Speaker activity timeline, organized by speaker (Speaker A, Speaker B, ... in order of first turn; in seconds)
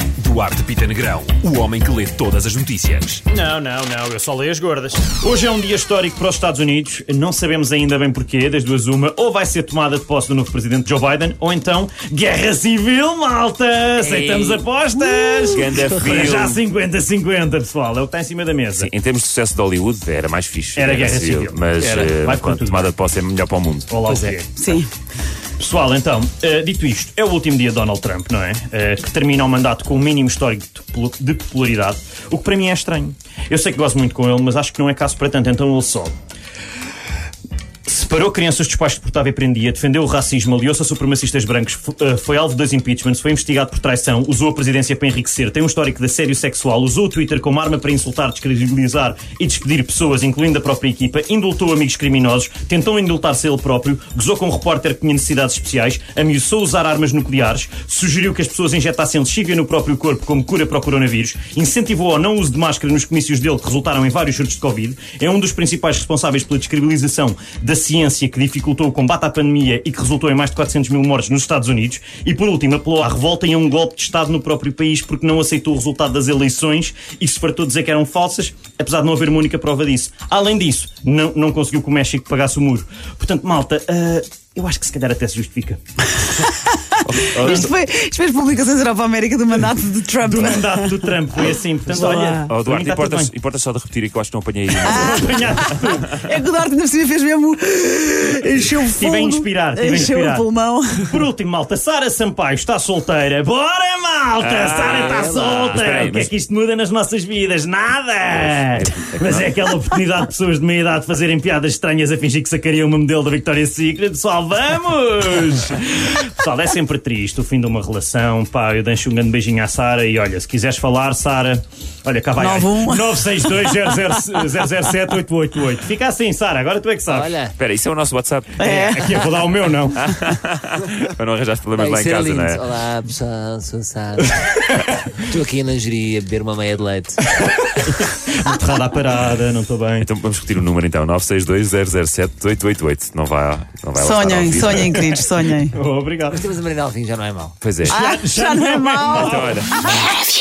Speaker A: 0.2-3.2
Speaker B: 3.3-18.9, 20.8-22.9, 23.9-24.8, 25.6-36.1, 37.9-85.8, 87.3-87.7, 90.2-93.3, 94.9-96.2, 98.9-100.5, 101.0-127.3, 128.6-130.2, 137.4-140.1, 144.8-146.5, 147.8-149.6
Speaker C: 14.0-14.6, 104.8-106.0, 127.1-127.6, 131.8-137.2, 146.3-147.6
Speaker D: 15.5-16.6, 18.8-24.0, 87.0-87.7, 92.5-96.0, 104.4-106.3, 108.3-109.6, 127.6-128.6, 130.0-132.7, 140.0-145.1, 147.6-148.0, 149.2-149.8
Speaker E: 24.6-24.9, 87.4-91.0, 92.0-92.4, 94.8-101.2, 122.4-123.7, 128.6-129.2, 144.0-145.8, 147.9-150.3